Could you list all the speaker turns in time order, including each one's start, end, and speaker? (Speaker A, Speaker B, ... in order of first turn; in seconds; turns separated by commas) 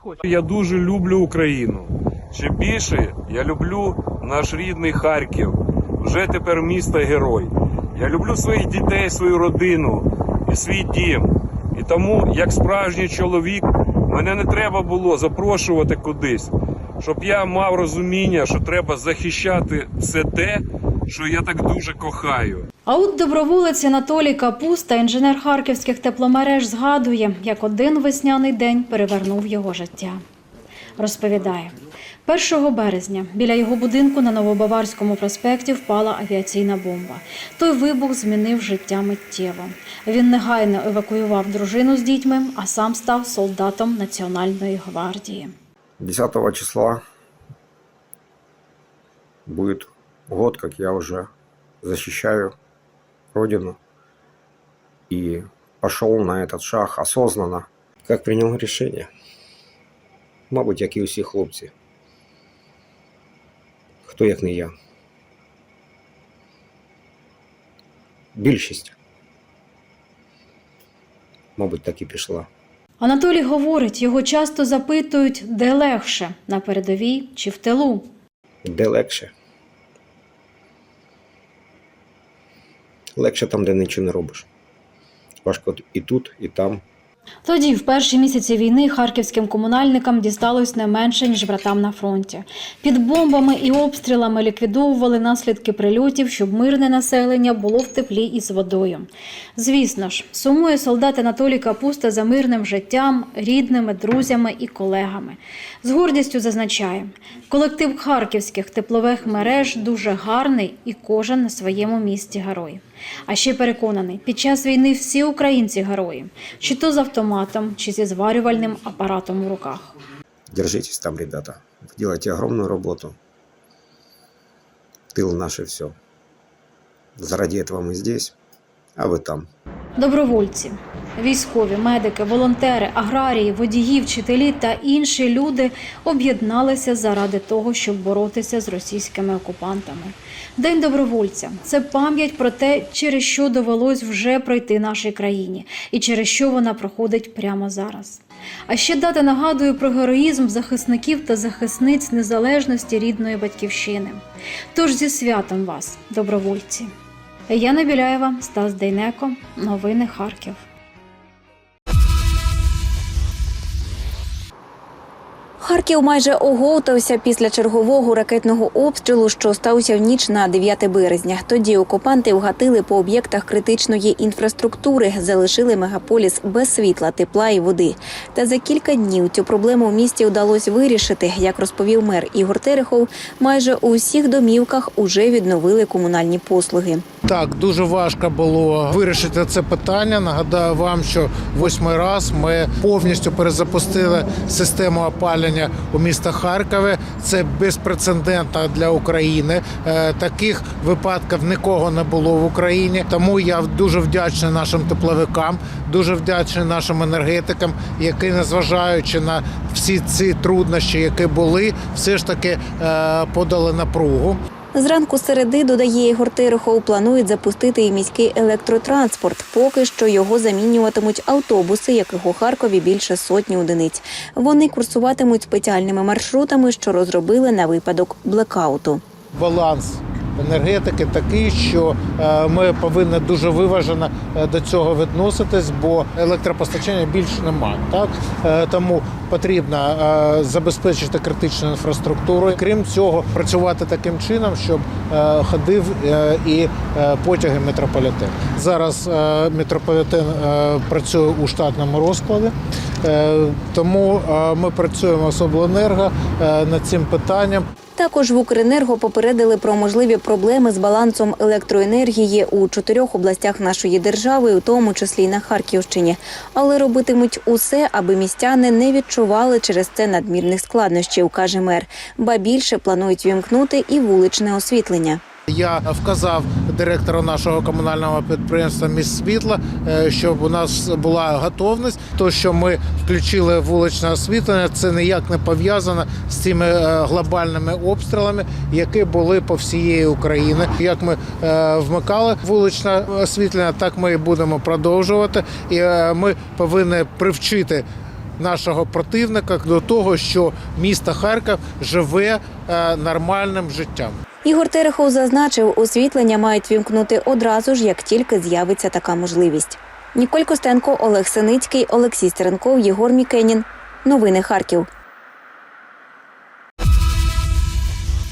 Speaker A: 0.2-22.7, Speaker B: 22.9-30.2, Speaker B: 31.0-31.7, Speaker B: 32.2-45.5, Speaker C: 46.0-47.0, Speaker C: 49.5-51.3, Speaker C: 51.8-52.5, Speaker C: 53.3-53.8, Speaker C: 55.1-59.1, Speaker C: 60.5-61.7, Speaker C: 64.0-64.7, Speaker C: 68.3-69.0, Speaker C: 71.6-72.5, Speaker B: 73.0-78.1, Speaker C: 78.6-79.3, Speaker C: 83.2-84.5, Speaker C: 85.4-86.8, Speaker B: 87.4-119.9, Speaker C: 120.5-123.2, Speaker C: 125.1-125.9, Speaker C: 127.2-128.3, Speaker C: 128.9-129.5, Speaker B: 130.0-154.2, Speaker B: 154.7-156.9, Speaker B: 157.5-160.6, Speaker D: 165.6-187.0, Speaker E: 187.2-214.4, Speaker D: 214.7-229.0, Speaker E: 229.3-257.6, Speaker D: 257.9-275.2, Speaker E: 275.5-297.9, Speaker E: 298.4-304.2, Speaker D: 304.4-314.9